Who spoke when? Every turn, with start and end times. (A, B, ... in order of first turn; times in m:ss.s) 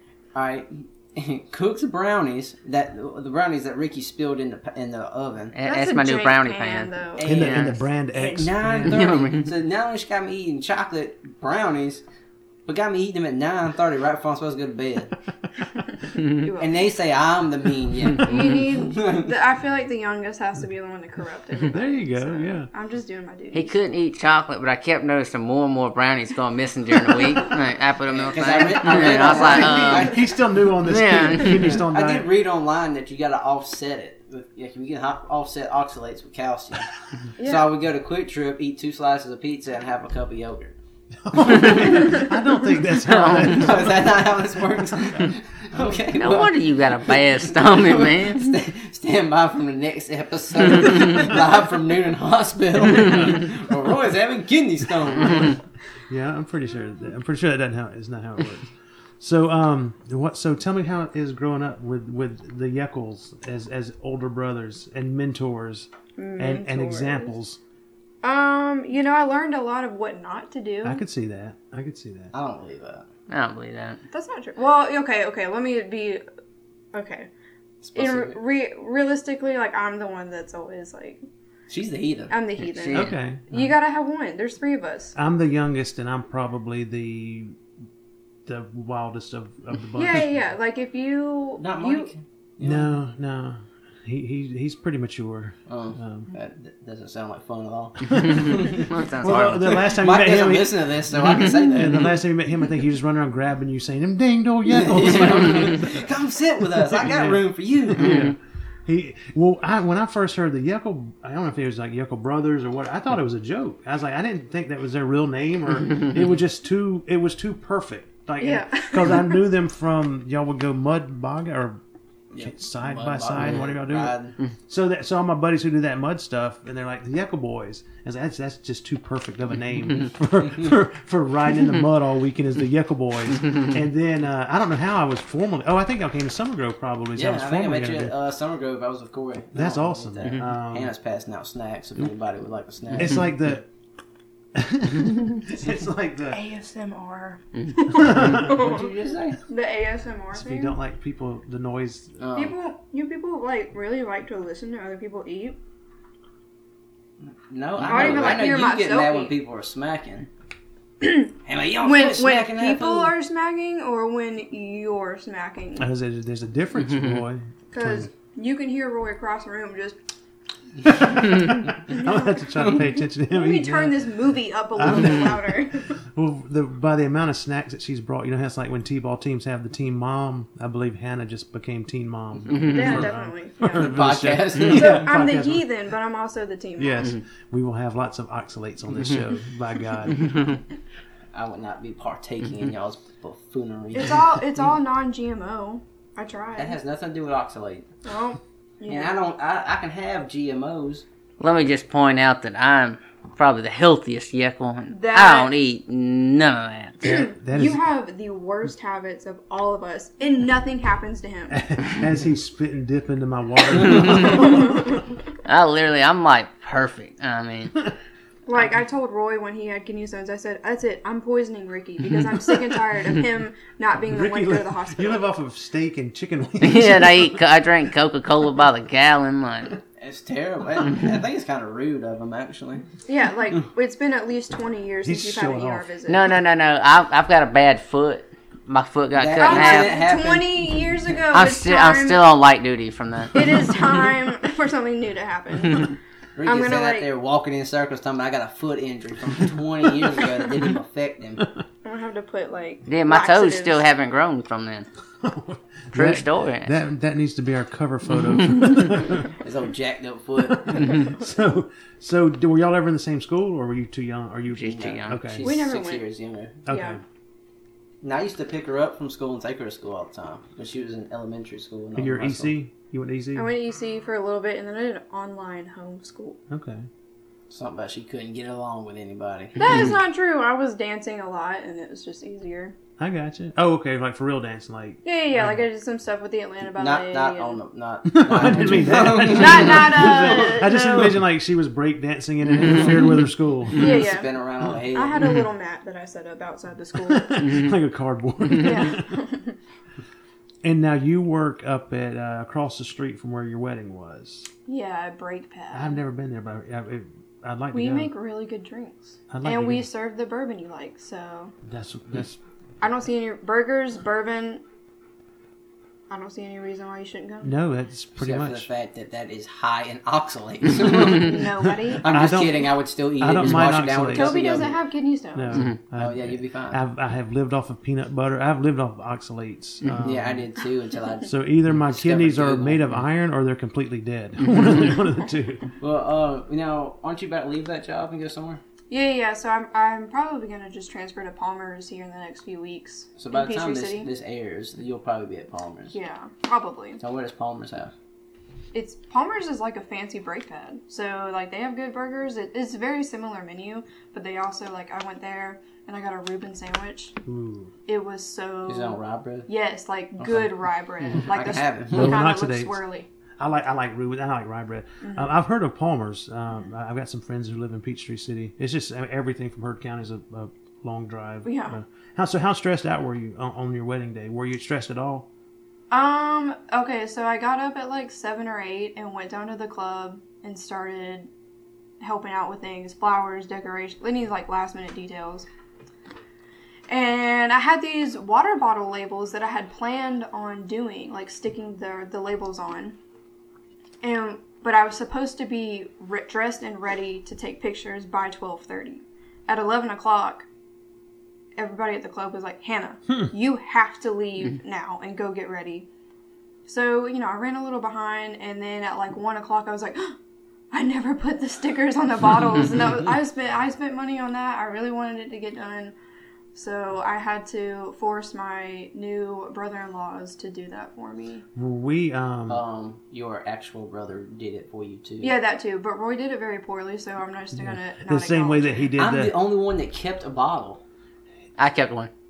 0:00.3-0:05.5 A
0:05.5-0:07.8 B
0:05.6-0:07.3 C
0:07.2-0:12.0 A
0:07.2-0:09.1 D
0:08.8-0:09.5 B
0:12.6-0:15.1 A
0:15.7-0:16.8 C
0:16.6-0:19.3 A
0:18.2-0:23.7 C
0:21.7-0:22.7 D
0:23.5-0:30.1 B
0:28.1-0:30.2 A
0:29.3-0:32.3 D
0:30.8-0:31.8 B
0:31.4-0:40.7 A
0:37.4-0:37.6 C
0:41.2-0:45.3 D
0:41.4-0:42.2 A
0:43.0-0:43.7 B
0:43.4-0:55.6 A
0:46.1-0:48.6 B
0:56.1-1:07.6 D
1:06.2-1:07.3 C
1:08.2-1:11.0 C
1:10.8-1:12.3 D
1:12.3-1:13.1 A
1:13.3-1:14.0 B
1:14.1-1:16.2 C
1:16.9-1:17.3 C
1:17.8-1:18.4 A
1:17.9-1:21.2 C
1:21.7-1:22.4 A
1:22.3-1:25.1 C
1:22.6-1:23.2 B
1:22.9-1:23.7 D
1:25.1-1:27.6 D
1:28.5-1:30.5 D
1:30.0-1:32.1 C
1:31.6-1:32.9 A
1:32.6-1:36.3 D
1:35.7-1:38.8 A
1:38.0-1:46.0 D
1:38.6-1:39.8 B
1:39.6-1:42.2 A
1:44.6-1:48.4 A
1:46.8-1:48.3 D
1:48.8-2:01.8 D
1:58.4-1:59.4 C
2:02.3-2:04.4 A
2:02.4-2:04.2 D
2:04.7-2:18.1 D
2:17.1-2:23.3 A
2:19.5-2:20.9 D
2:22.9-2:23.6 D
2:24.5-2:26.4 D
2:26.3-2:28.9 C
2:27.6-2:28.4 B
2:28.4-2:29.4 A
2:29.5-2:30.8 C
2:30.3-2:32.2 D
2:32.2-2:32.5 A
2:32.3-2:35.6 C
2:37.2-2:40.3 A
2:37.8-2:39.4 C
2:41.0-2:41.3 C
2:41.4-2:43.1 A
2:41.8-2:45.9 C
2:45.8-2:48.1 D
2:47.7-2:50.0 C
2:51.0-2:56.0 C
2:51.2-2:54.1 D
2:54.7-3:05.7 D
3:02.5-3:03.1 B
3:02.7-3:07.1 C
3:03.7-3:05.0 A
3:06.8-3:10.6 D
3:10.2-3:10.5 B
3:11.3-3:14.3 A
3:13.9-3:16.8 C
3:16.6-3:17.9 A
3:18.0-3:19.1 C
3:18.9-3:21.0 A
3:21.4-3:27.3 B
3:24.9-3:25.5 C
3:27.0-3:31.6 C
3:27.4-3:27.8 D
3:31.5-3:34.7 D
3:33.8-3:35.2 C
3:35.4-3:37.8 B
3:38.4-3:45.3 C
3:44.0-3:47.4 D
3:46.6-3:49.8 B
3:50.0-3:52.9 A
3:53.0-3:56.4 C
3:55.0-3:55.8 D
3:56.1-4:00.0 B
3:59.1-4:00.6 A
3:59.4-4:02.2 C
4:01.3-4:03.8 B
4:03.3-4:07.1 C
4:06.4-4:11.4 A
4:11.8-4:13.9 C
4:12.9-4:14.9 B
4:15.2-4:19.4 D
4:15.9-4:16.7 B
4:19.3-4:21.0 A
4:20.5-4:25.5 D
4:24.5-4:25.2 B
4:24.6-4:26.6 A
4:25.4-4:26.0 C
4:26.6-4:27.0 D
4:26.7-4:27.0 C
4:28.0-4:32.5 A
4:32.0-4:33.5 D
4:33.3-4:36.4 C
4:36.5-4:36.9 D
4:37.5-4:39.8 A
4:39.5-4:42.7 C
4:43.0-4:45.6 D
4:45.0-4:47.6 C
4:46.8-4:50.2 A
4:48.1-4:54.0 D
4:49.1-4:51.2 C
4:52.5-4:53.2 B
4:52.7-4:53.0 A
4:53.7-4:55.4 A
4:53.7-4:57.6 C
4:57.1-4:59.0 D
4:57.4-4:57.7 B
4:58.6-4:59.6 C
5:00.6-5:04.5 D
5:04.7-5:06.0 C
5:05.7-5:08.1 D
5:07.7-5:11.5 C
5:09.3-5:09.9 D
5:11.6-5:12.4 D
5:12.8-5:14.6 C
5:16.1-5:17.5 C
5:17.4-5:18.7 D
5:18.2-5:24.7 A
5:21.0-5:22.1 C
5:22.0-5:24.7 D
5:24.1-5:25.7 C
5:25.3-5:30.5 D
5:25.9-5:26.8 A
5:29.8-5:30.1 B
5:30.0-5:32.9 A
5:31.3-5:35.7 D
5:35.8-5:38.6 A
5:38.9-5:44.1 C
5:43.2-5:45.9 A
5:45.9-5:47.0 C
5:47.0-5:47.9 A
5:48.7-5:57.2 C
5:57.2-5:57.7 D
5:57.9-6:03.1 C
5:58.7-5:59.5 A
6:00.2-6:00.5 D
6:01.2-6:02.2 A
6:01.9-6:02.8 D
6:03.4-6:15.3 D
6:05.0-6:05.3 C
6:11.4-6:11.8 C
6:15.9-6:21.3 C
6:22.0-6:25.5 C
6:26.9-6:33.0 C
6:34.0-6:40.4 C
6:41.6-6:45.9 C
6:46.7-6:50.2 C
6:50.7-6:55.9 C
6:56.5-7:01.4 C
7:01.5-7:02.6 D
7:02.5-7:05.4 A
7:05.2-7:08.9 C
7:07.7-7:09.4 D
7:09.0-7:10.8 A
7:11.6-7:12.1 B